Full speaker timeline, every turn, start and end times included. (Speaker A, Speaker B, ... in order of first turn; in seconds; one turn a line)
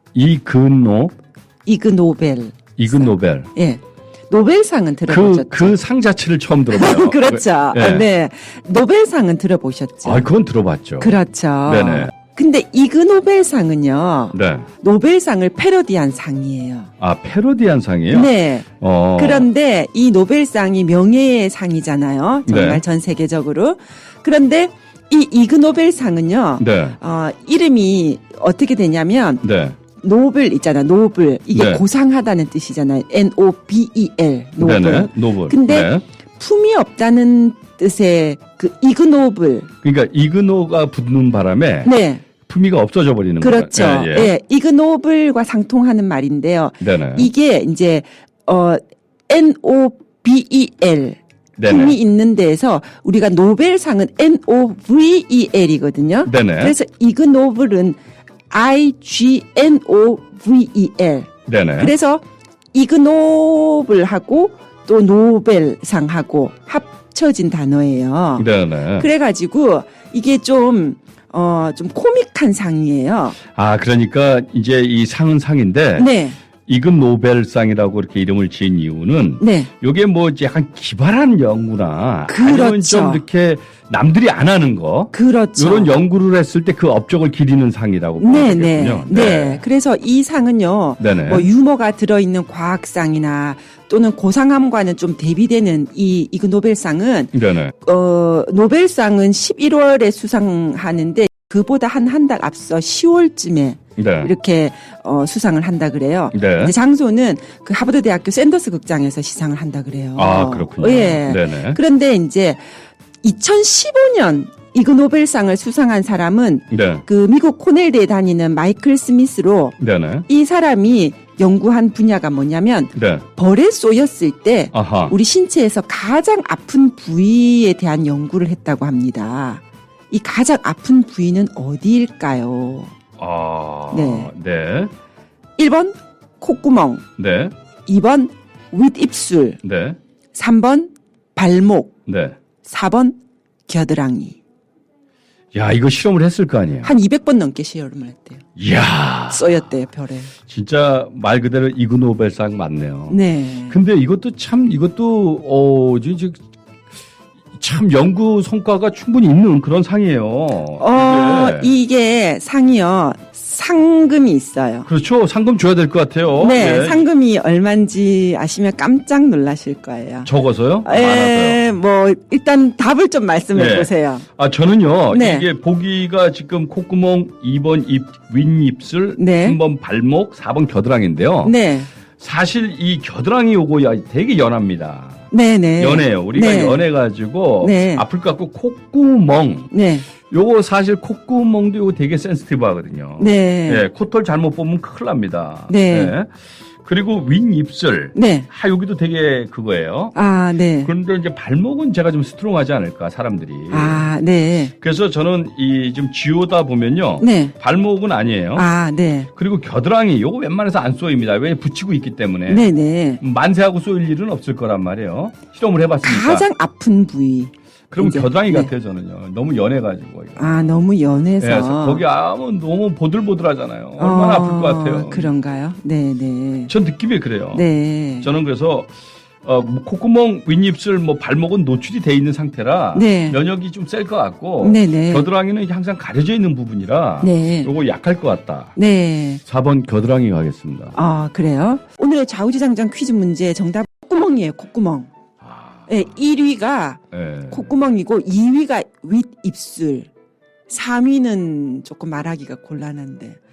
Speaker A: 0.1-1.1
Speaker B: 1.6-5.8
Speaker A: 2.8-3.5
Speaker A: 5.1-8.1
Speaker B: 6.7-10.3
Speaker A: 10.0-12.1
Speaker B: 11.0-16.9
Speaker A: 14.3-14.7
Speaker A: 17.0-19.5
Speaker B: 18.1-29.4
Speaker A: 22.4-22.8
Speaker A: 26.6-27.0
Speaker A: 29.4-29.8
Speaker B: 30.0-39.7
Speaker A: 31.5-31.8
Speaker A: 34.6-36.0
Speaker A: 39.8-44.3
Speaker B: 41.8-42.2
Speaker B: 43.4-58.0
Speaker A: 46.8-47.3
Speaker A: 51.6-52.0
Speaker A: 56.2-56.8
Speaker B: 58.5-73.4
Speaker A: 61.5-61.9
Speaker A: 68.4-69.1
Speaker A: 73.5-76.1
Speaker B: 76.0-76.4
Speaker A: 76.7-89.6
Speaker B: 79.4-79.7
Speaker B: 82.3-83.2
Speaker B: 85.1-86.0
Speaker B: 88.2-112.7
Speaker A: 91.0-91.5
Speaker A: 97.3-97.7
Speaker A: 104.0-104.3
Speaker A: 106.3-106.7
Speaker A: 110.2-111.8
Speaker B: 113.2-119.8
Speaker A: 116.7-117.0
Speaker A: 119.8-120.2
Speaker B: 120.3-132.9
Speaker A: 122.9-123.2
Speaker A: 124.7-125.1
Speaker A: 133.2-134.9
Speaker B: 133.9-134.3
Speaker B: 135.6-137.0
Speaker A: 137.2-137.5
Speaker B: 137.8-139.6
Speaker A: 139.6-140.0
Speaker B: 140.3-141.9
Speaker A: 142.1-142.4
Speaker B: 142.6-144.4
Speaker A: 145.5-146.9
Speaker B: 146.8-148.4
Speaker A: 148.6-149.6
Speaker B: 149.3-150.3
Speaker A: 150.5-156.4
Speaker B: 153.1-153.8
Speaker A: 157.6-161.7
Speaker B: 160.8-164.9
Speaker A: 164.9-167.1
Speaker B: 166.4-170.3
Speaker A: 170.2-171.6
Speaker B: 170.8-174.2
Speaker A: 173.5-181.5
Speaker B: 175.1-175.4
Speaker B: 179.2-179.6
Speaker B: 181.4-181.9
Speaker A: 182.2-185.2
Speaker B: 185.3-186.8
Speaker A: 185.8-189.7
Speaker B: 187.6-188.0
Speaker B: 189.7-190.1
Speaker A: 190.3-196.3
Speaker B: 193.2-193.8
Speaker B: 195.7-196.2
Speaker A: 196.8-200.2
Speaker B: 198.1-198.5
Speaker B: 200.1-200.9
Speaker A: 200.8-204.1
Speaker B: 203.7-204.7
Speaker A: 204.8-208.7
Speaker B: 207.2-207.5
Speaker B: 208.6-209.3
Speaker A: 209.3-212.7
Speaker B: 212.5-213.2
Speaker A: 213.2-216.4
Speaker B: 216.0-218.7
Speaker A: 217.9-220.8
Speaker B: 220.4-222.0
Speaker A: 221.4-225.3
Speaker B: 224.0-226.7
Speaker A: 226.7-227.7
Speaker B: 227.5-228.3
Speaker A: 228.2-228.9
Speaker A: 229.4-238.7
Speaker B: 232.9-233.4
Speaker B: 234.6-235.3
Speaker B: 237.2-237.7
Speaker B: 238.8-239.4
Speaker A: 239.4-241.0
Speaker B: 240.9-245.1
Speaker A: 245.4-245.9
Speaker B: 245.9-250.1
Speaker A: 247.1-247.7
Speaker B: 250.7-253.4